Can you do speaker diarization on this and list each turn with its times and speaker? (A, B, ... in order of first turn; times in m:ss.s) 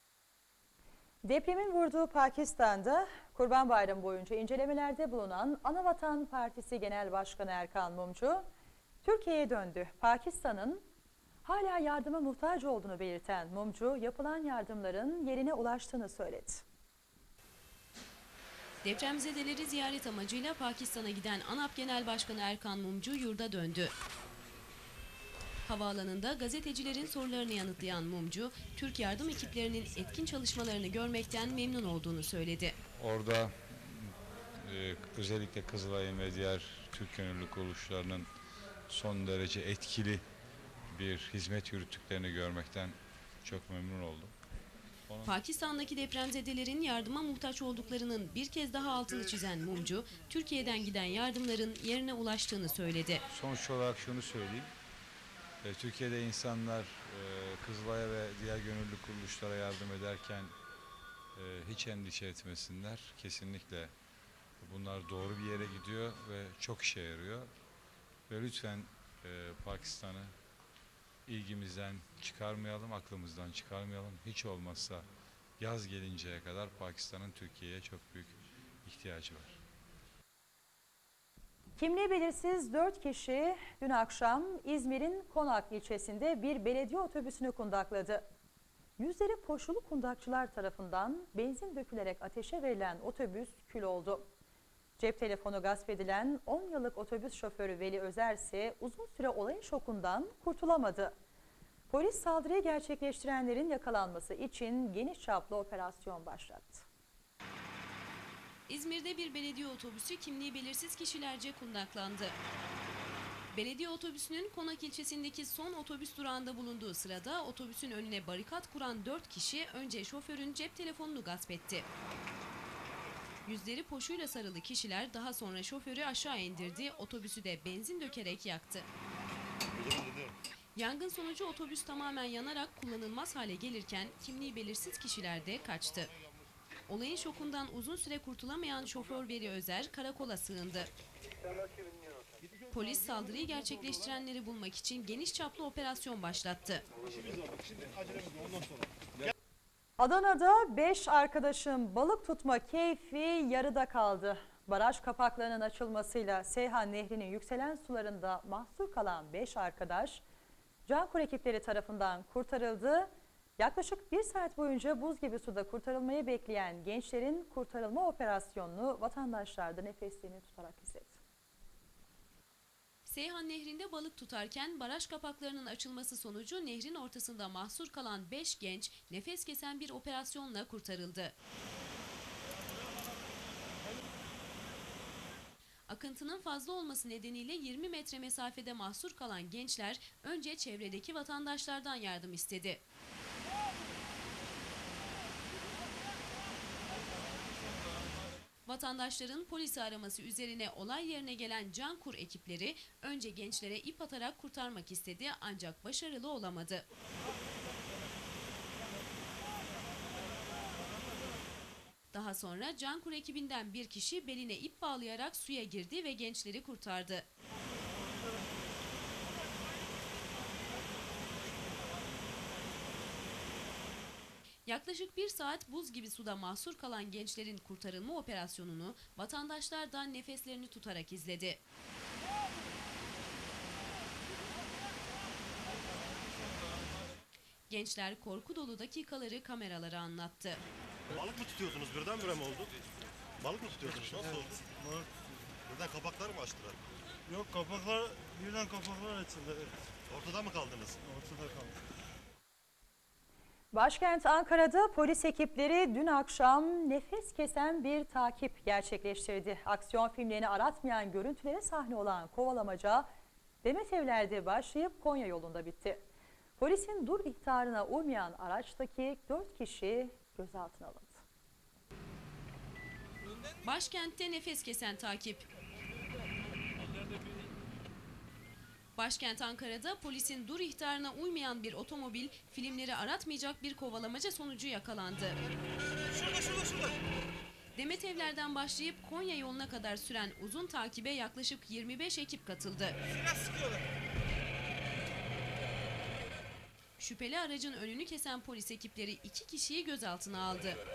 0:01.2-0:08.4 A
0:09.0-0:10.8 A
0:11.4-0:16.6 A
0:18.8-0:23.9 B
0:25.7-0:32.8 B
0:33.0-0:38.3 C
0:38.9-0:40.2 C
0:40.9-0:44.3 C
0:45.1-0:45.4 C
0:45.2-0:53.2 B
0:53.3-0:54.7 C
0:55.6-1:00.5 C
1:01.4-1:03.9 C
1:04.6-1:07.5 C
1:08.3-1:10.3 C
1:11.3-1:15.1 C
1:15.6-1:19.5 C
1:21.8-1:28.2 A
1:29.0-1:34.3 A
1:35.0-1:41.1 A
1:41.9-1:46.9 A
1:48.7-1:52.4 B
1:53.5-2:01.9 B
2:03.5-2:08.9 B
2:09.8-2:10.3 D
2:10.8-2:16.2 B
2:16.9-2:20.9 B
2:22.7-2:26.8 B
2:30.0-2:40.2 A
2:40.9-2:51.2 A
2:53.1-3:01.3 B
3:05.9-3:12.8 B
3:18.7-3:26.9 B
3:32.1-3:37.3 B
3:44.7-3:51.6 B
3:57.7-4:00.6 B
4:01.1-4:02.7 D
4:03.4-4:04.7 D
4:04.7-4:05.1 E
4:05.7-4:06.8 D
4:07.3-4:09.8 E
4:10.1-4:11.0 D
4:11.0-4:11.7 E
4:13.7-4:23.1 A
4:23.6-4:26.0 A
4:26.6-4:31.2 A
4:33.6-4:35.4 B
4:39.0-4:45.4 B
4:47.8-4:53.0 B
4:57.0-5:00.8 B